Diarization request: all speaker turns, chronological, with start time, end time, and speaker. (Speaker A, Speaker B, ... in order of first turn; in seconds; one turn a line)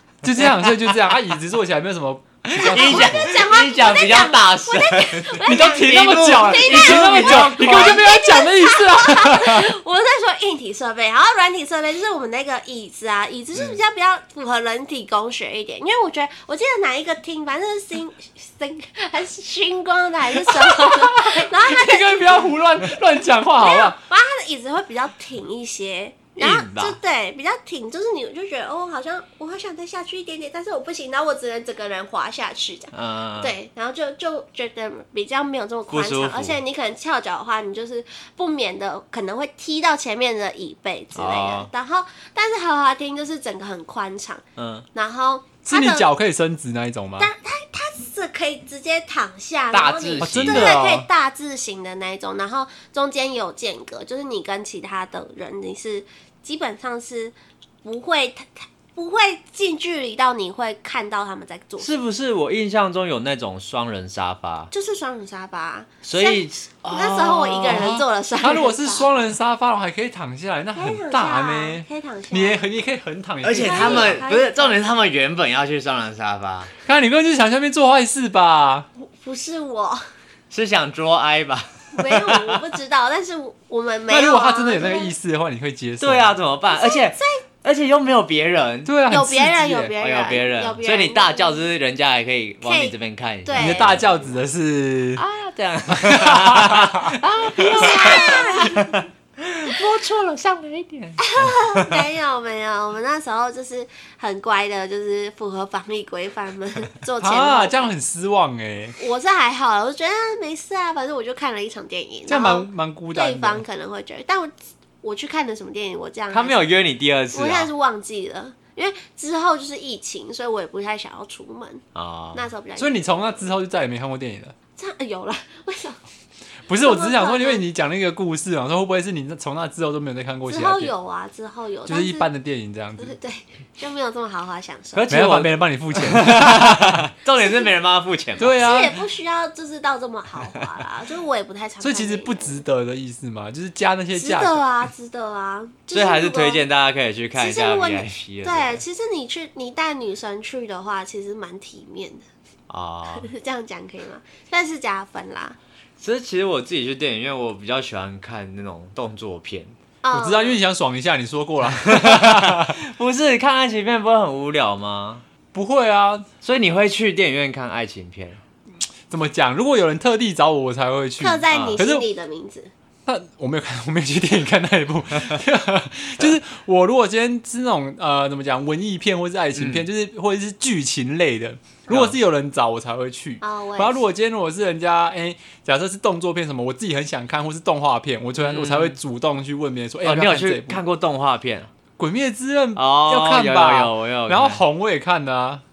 Speaker A: 0.2-3.3
Speaker B: 0.4-0.9
Speaker C: 2.6-23.0
Speaker B: 2.6-8.1
Speaker A: 5.5-9.7
Speaker A: 20.4-24.0
Speaker C: 23.6-44.4
Speaker B: 26.4-27.0
Speaker B: 32.9-33.5
Speaker B: 35.9-36.6
Speaker B: 41.1-41.7
Speaker B: 44.6-44.8
Speaker C: 44.9-46.1
Speaker A: 45.7-47.3
Speaker C: 47.2-62.0
Speaker B: 49.7-50.8
Speaker A: 50.2-51.1
Speaker B: 61.8-64.7
Speaker C: 64.7-69.1
Speaker B: 66.0-68.0
Speaker A: 67.7-74.2
Speaker C: 70.7-72.6
Speaker B: 73.4-76.7
Speaker C: 73.5-74.8
Speaker A: 76.8-78.9
Speaker C: 79.0-80.0
Speaker B: 80.5-82.7
Speaker C: 81.9-85.1
Speaker A: 84.1-86.3
Speaker B: 86.0-88.9
Speaker C: 86.7-87.4
Speaker A: 88.8-89.9
Speaker C: 89.1-91.7
Speaker B: 90.0-94.4
Speaker C: 92.6-93.9
Speaker A: 93.6-95.2
Speaker B: 95.2-102.0
Speaker A: 95.9-97.2
Speaker C: 97.5-99.0
Speaker A: 97.8-98.2
Speaker C: 101.2-107.9
Speaker A: 107.2-109.0
Speaker C: 109.0-116.5
Speaker A: 112.3-113.6
Speaker B: 116.3-117.7
Speaker C: 117.3-123.2
Speaker B: 121.9-122.5
Speaker A: 122.8-124.5
Speaker C: 124.8-126.0
Speaker A: 126.7-130.9
Speaker C: 126.8-127.6
Speaker C: 130.5-132.3
Speaker A: 131.9-133.1
Speaker C: 133.0-135.1
Speaker B: 134.9-138.6
Speaker A: 135.1-137.1
Speaker A: 138.4-139.0
Speaker C: 138.4-142.6
Speaker A: 141.8-144.8
Speaker C: 144.1-146.6
Speaker B: 145.9-148.8
Speaker C: 147.3-152.2
Speaker B: 152.7-153.3
Speaker C: 153.1-155.6
Speaker B: 156.0-159.8
Speaker C: 160.0-160.6
Speaker A: 160.1-162.8
Speaker B: 161.7-165.2
Speaker A: 165.5-166.3
Speaker B: 166.4-168.4
Speaker A: 169.1-172.1
Speaker C: 171.2-172.7
Speaker B: 171.5-171.8
Speaker A: 173.1-190.8
Speaker B: 179.5-179.8
Speaker B: 181.9-182.1
Speaker C: 183.4-184.0
Speaker B: 188.4-189.0
Speaker B: 190.0-191.7
Speaker A: 192.0-195.6
Speaker B: 192.8-194.6